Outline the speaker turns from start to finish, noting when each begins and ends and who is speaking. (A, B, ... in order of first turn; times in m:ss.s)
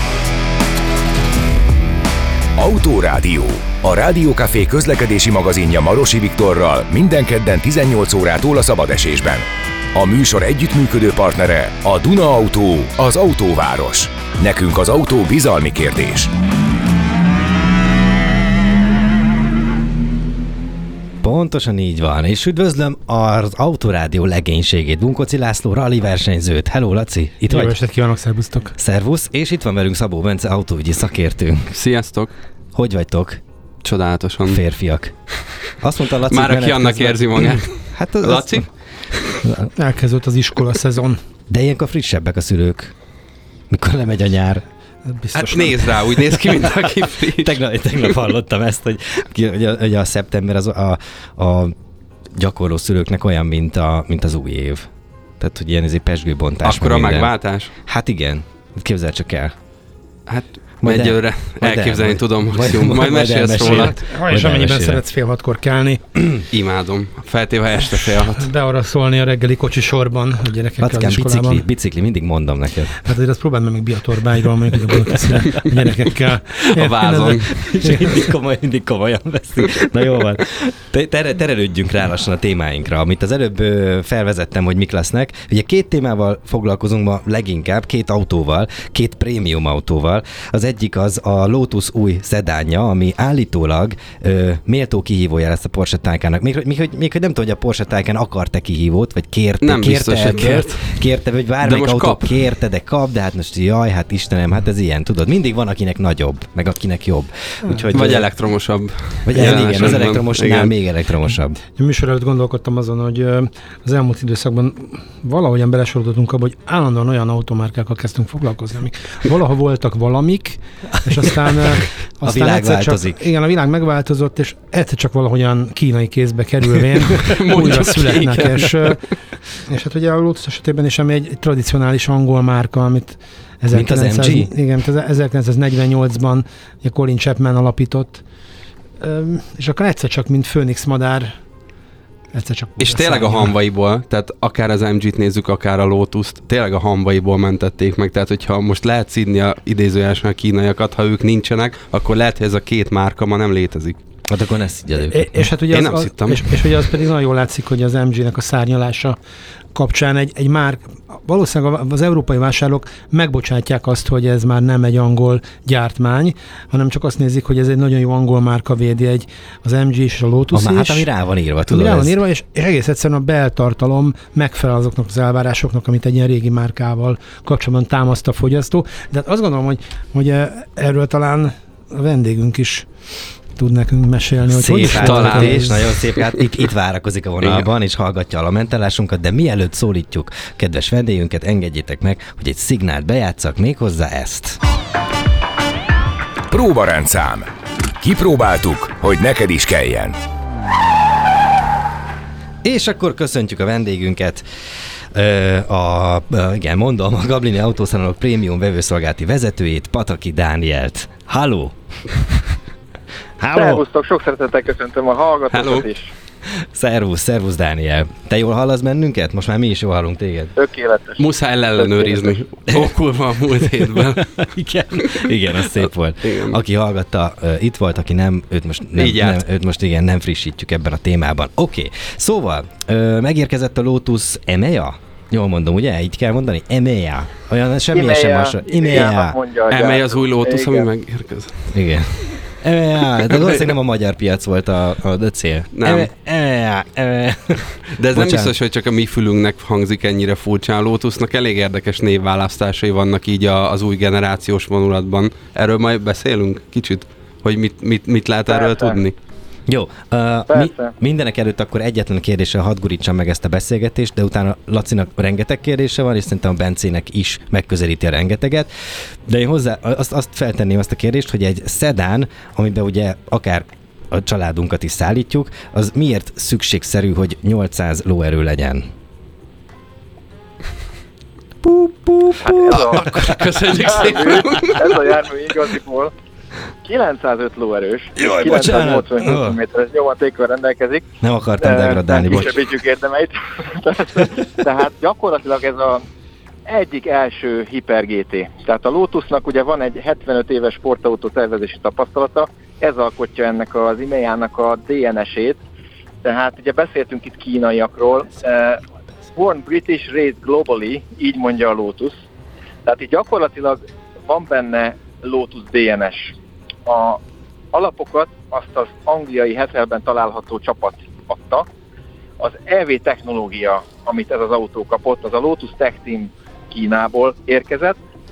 0:02.6-0:16.3 A
0:21.2-0:27.8 B
0:27.4-0:28.8 C
0:28.8-0:31.8 B
0:31.8-0:32.3 D
0:32.7-0:33.4 B
0:33.8-0:34.6 D
0:34.5-0:38.7 B
0:36.3-0:39.4 D
0:39.4-0:39.7 B
0:39.8-0:41.2 C
0:41.5-0:42.9 B
0:43.7-0:44.6 B
0:45.1-0:46.1 C
0:45.4-0:47.6 D
0:47.4-0:51.7 B
0:52.4-0:59.5 B
0:56.6-0:57.7 D
1:00.3-1:04.0 D
1:00.8-1:05.0 B
1:03.6-1:06.0 C
1:06.2-1:06.4 B
1:06.5-1:08.5 D
1:08.4-1:11.6 C
1:10.8-1:13.0 B
1:13.0-1:18.3 C
1:16.8-1:17.6 D
1:17.3-1:48.3 B
1:39.6-1:41.0 D
1:41.6-1:42.4 D
1:47.9-1:50.7 D
1:49.2-1:51.6 B
1:51.7-2:09.0 C
2:01.2-2:03.2 B
2:07.2-2:09.0 D
2:09.6-2:18.2 C
2:13.7-2:14.5 B
2:19.0-2:21.4 C
2:22.3-2:23.5 C
2:22.8-2:34.0 D
2:34.3-2:35.4 B
2:35.1-2:39.2 C
2:35.7-2:36.4 D
2:39.8-2:51.1 C
2:50.5-2:52.2 B
2:51.7-3:02.9 C
3:03.6-3:05.8 C
3:04.5-3:14.6 B
3:04.9-3:06.2 D
3:07.4-3:07.7 D
3:16.5-3:20.2 A
3:22.6-3:24.6 B
3:25.1-3:32.6 B
3:33.4-3:33.8 B
3:33.5-3:36.1 E
3:35.5-3:35.9 D
3:36.5-3:40.6 B
3:40.6-3:41.2 E
3:41.2-3:44.5 D
3:41.8-3:42.4 E
3:43.8-3:59.4 B
3:45.0-3:46.6 D
3:49.0-3:49.4 D
3:57.9-4:00.9 E
3:59.7-4:01.7 D
4:01.7-4:08.5 B
4:05.8-4:06.1 D
4:08.0-4:19.2 D
4:18.5-4:19.0 E
4:19.7-4:38.9 B
4:20.5-4:20.9 E
4:41.6-4:43.9 B
4:42.4-4:43.1 E
4:42.7-4:44.9 D
4:43.7-4:46.1 E
4:46.8-4:51.1 E
4:48.2-4:49.6 B
4:51.2-4:52.6 B
4:51.6-4:56.0 E
4:56.7-5:05.6 E
5:06.2-5:08.8 E
5:09.4-5:12.2 E
5:12.8-5:17.2 E
5:17.7-5:21.7 E
5:22.4-5:28.0 E